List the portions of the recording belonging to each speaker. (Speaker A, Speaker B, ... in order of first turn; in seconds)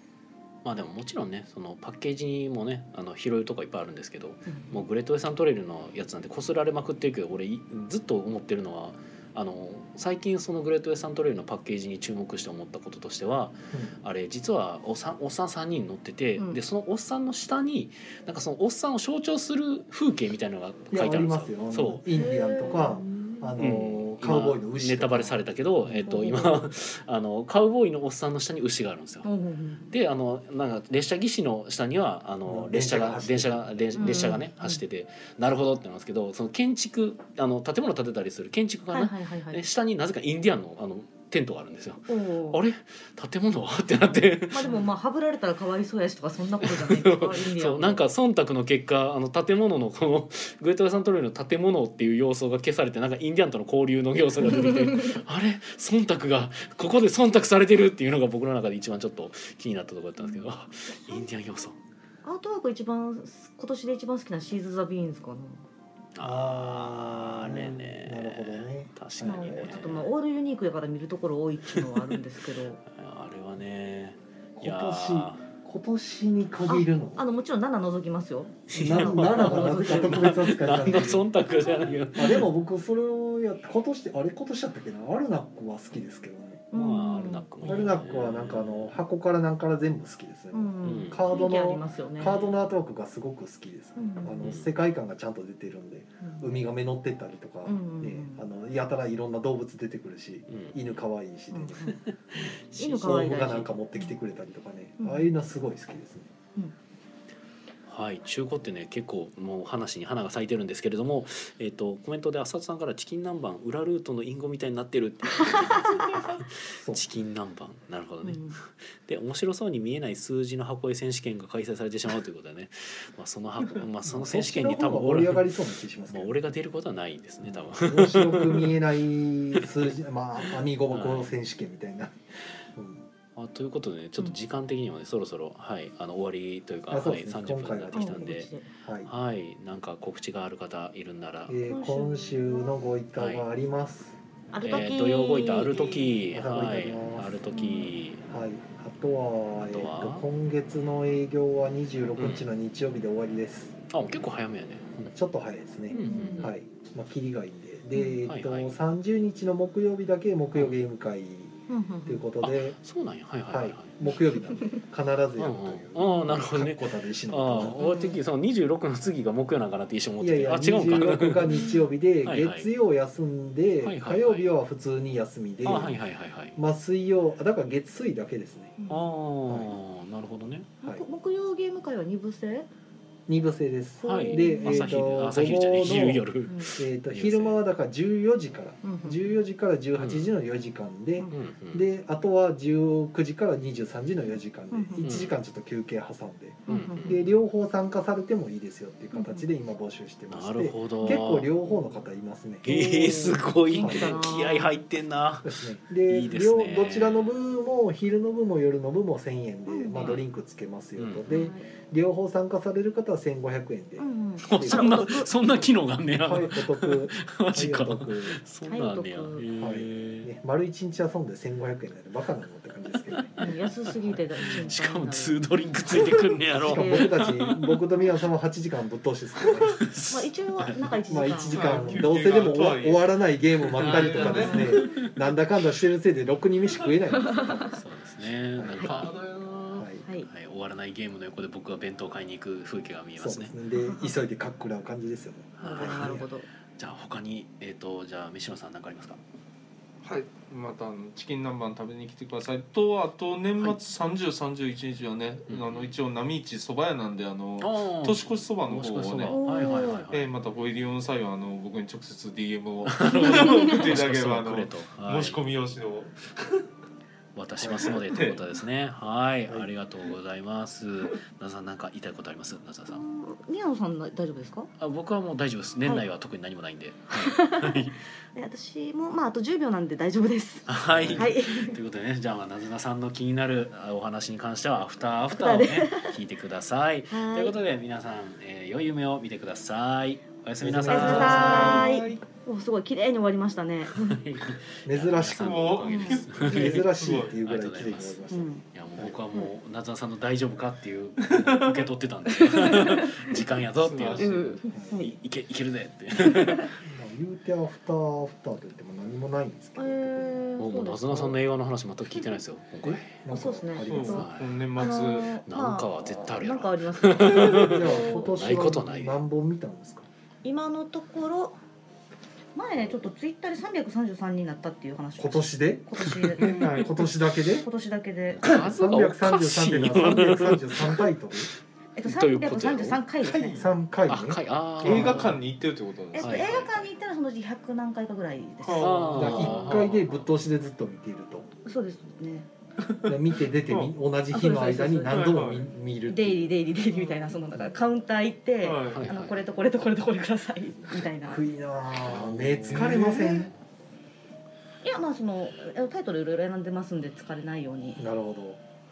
Speaker A: 0.6-22.0, 23.6-29.3, 29.9-44.7, 46.6-61.8, 66.1-70.1, 71.7-72.0, 72.8-75.5, 78.7-82.4, 86.7-88.9, 90.8-91.3, 94.4-94.7, 100.5-100.8, 102.0-103.2, 107.9-125.5, 126.1-128.8, 130.9-131.3, 133.3-138.5, 139.0-141.6, 143.2-143.4, 144.6-148.2, 149.6-150.2, 152.2-152.5, 153.9-155.2, 155.9-156.5, 158.2-158.7, 162.4-164.0, 165.4-171.5, 172.2-172.7, 173.8-174.5, 175.6-176.6, 178.9-180.7, 184.0-187.6, 190.0-190.3, 191.3-191.8, 195.0-195.3, 196.7-197.3, 200.3-201.5, 202.6-207.3, 209.9-210.2, 211.0-211.4, 214.4-220.3, 223.1-227.6, 229.4-230.9, 233.8-235.1, 237.7-239.2, 240.2-243.5, 245.6-246.3, 246.8-249.2, 255.5-255.9, 257.6-260.3, 262.9-265.4, 267.3-273.0, 274.8-278.0, 280.7-291.9, 293.9-306.8, 310.6-313.2, 314.1-314.5, 315.5-319.2, 328.4-331.1, 332.0-333.0, 334.1-335.4, 336.1-336.9, 338.8-340.2, 348.9-349.4, 352.1-353.3
Speaker B: 20.9-26.0, 32.4-34.3, 66.2-69.8, 74.6-77.2, 78.7-81.3, 82.1-86.6, 87.6-106.3, 124.0-126.4, 127.4-132.2, 132.7-133.1, 136.9-139.1, 141.5-144.2, 146.3-147.3, 148.3-153.8, 155.1-162.8, 163.5-167.8, 170.2-176.0, 176.6-178.8, 183.3-202.7, 203.7-204.3, 205.4-215.1, 216.2-218.4, 219.6-223.3, 226.5-229.8, 231.1-237.8, 238.5-239.1, 239.7-240.1, 243.2-246.2, 267.6-268.0, 280.9-281.3, 290.6-291.9, 294.8-295.8, 296.3-299.2, 304.7-305.0, 306.8-310.4, 312.8-314.3, 317.2-320.1, 325.2-327.7, 328.4-331.5, 333.5-335.4, 339.1-341.5, 343.0-346.5, 351.2-353.5, 358.0-358.6
Speaker C: 22.1-23.5, 26.0-26.7, 29.2-29.9, 34.0-34.8, 38.9-39.6, 42.1-42.6, 44.5-48.0, 54.4-55.2, 60.2-61.2, 62.2-65.6, 69.2-72.8, 76.7-80.6, 86.7-87.9, 90.5-92.4, 94.0-94.4, 96.2-96.5, 97.6-98.5, 101.5-102.0, 102.7-104.1, 105.0-105.3, 115.4-116.3, 118.2-118.6, 137.9-138.7, 141.6-142.7, 144.5-146.2, 147.5-147.9, 155.9-156.5, 157.9-158.2, 161.7-162.2, 167.8-168.2, 171.4-171.9, 178.8-179.1, 180.8-182.7, 184.0-184.9, 186.5-186.7, 188.8-189.4, 194.7-195.1, 196.7-197.1, 199.1-199.5, 202.6-204.7, 209.7-210.1, 211.3-211.7, 214.0-215.3, 218.6-219.4, 223.4-226.0, 226.6-227.2, 230.1-232.0, 234.1-234.8, 237.1-237.7, 243.7-244.2, 245.6-246.4, 259.3-260.0, 263.3-263.7, 272.9-274.7, 277.1-281.8, 285.3-286.2, 287.1-287.6, 290.9-294.2, 295.8-296.8, 298.3-298.6, 302.3-303.3, 304.1-305.1, 306.2-306.6, 309.8-311.4, 313.3-318.3, 320.4-321.6, 322.5-328.6, 331.9-333.6, 336.1-339.4, 341.6-342.5, 344.3-345.4, 346.1-351.4, 353.1-353.4, 354.8-358.1
Speaker D: 231.5-233.1, 233.7-234.8, 238.9-239.8, 250.0-266.6, 267.7-268.4, 290.9-292.2, 295.3-297.3, 301.2-301.8, 303.8-304.6, 313.8-315.4, 326.4-326.9, 333.2-333.7, 334.8-336.7, 338.6-340.0, 342.8-343.1, 343.7-343.9, 345.1-345.7, 346.9-347.3, 348.6-349.1, 352.7-353.5